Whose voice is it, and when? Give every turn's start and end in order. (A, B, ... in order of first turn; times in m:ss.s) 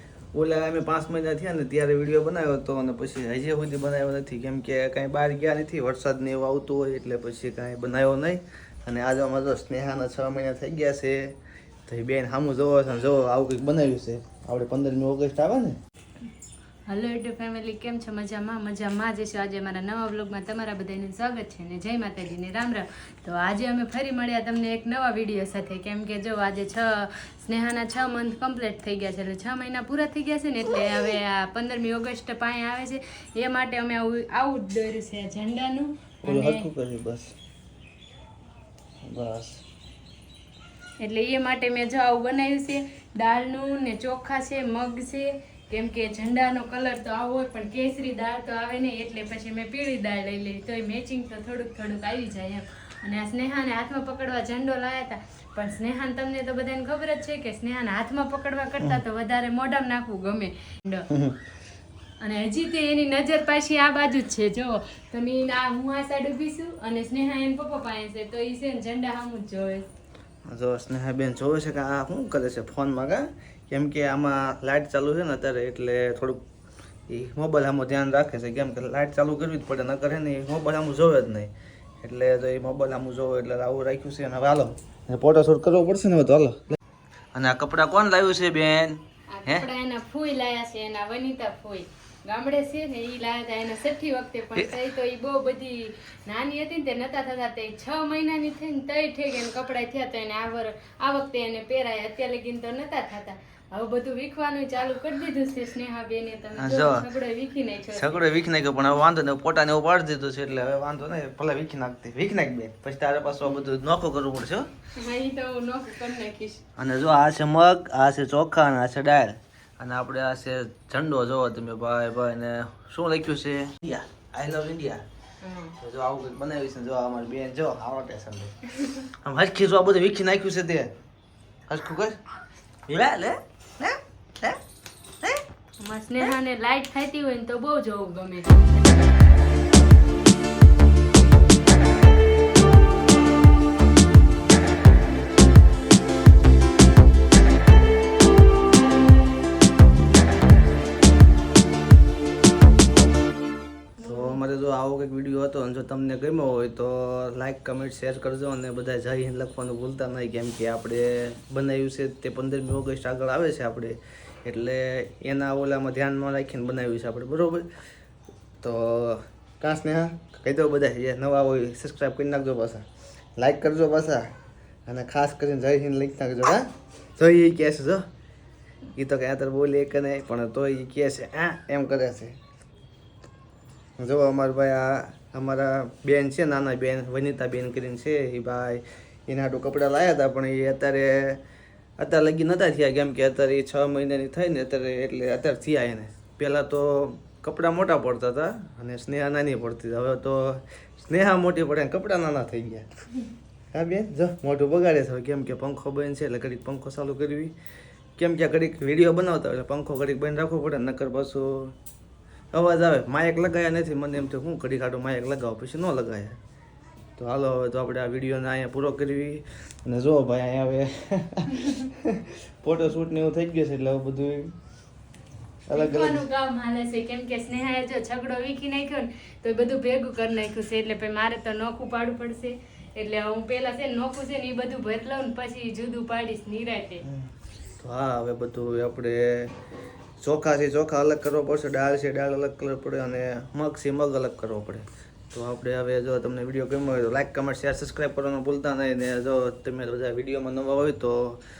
0:00.3-0:15.8 A
0:16.9-0:36.7 B
0:36.2-0:37.3 A
0:39.0-0:39.6 A
0:41.0-1:01.1 B
1:01.1-1:01.4 A
1:02.2-1:09.9 B
1:10.4-1:16.4 A
1:17.1-1:26.8 A
1:27.3-1:29.7 A
1:29.3-1:48.2 B
1:46.6-1:47.0 A
1:47.9-1:54.7 A
1:55.0-1:56.6 B
1:56.8-2:05.0 A
2:05.4-2:05.8 B
2:05.8-2:08.6 A
2:09.1-2:10.9 A
2:11.7-2:12.2 A
2:12.9-2:14.6 A
2:15.8-2:18.6 B
2:34.0-2:34.4 B
2:34.0-2:47.7 A
2:48.6-2:52.8 A
2:53.4-2:54.3 A
2:54.8-2:58.1 A
2:58.9-3:02.4 A
3:04.0-3:11.4 A
3:12.0-3:22.9 A
3:23.7-3:27.5 A
3:28.2-3:31.7 A
3:32.5-3:36.4 A
3:37.2-3:44.5 A
3:45.7-3:46.2 A
3:45.7-3:57.0 B
3:57.0-3:59.6 A
4:00.2-4:11.4 A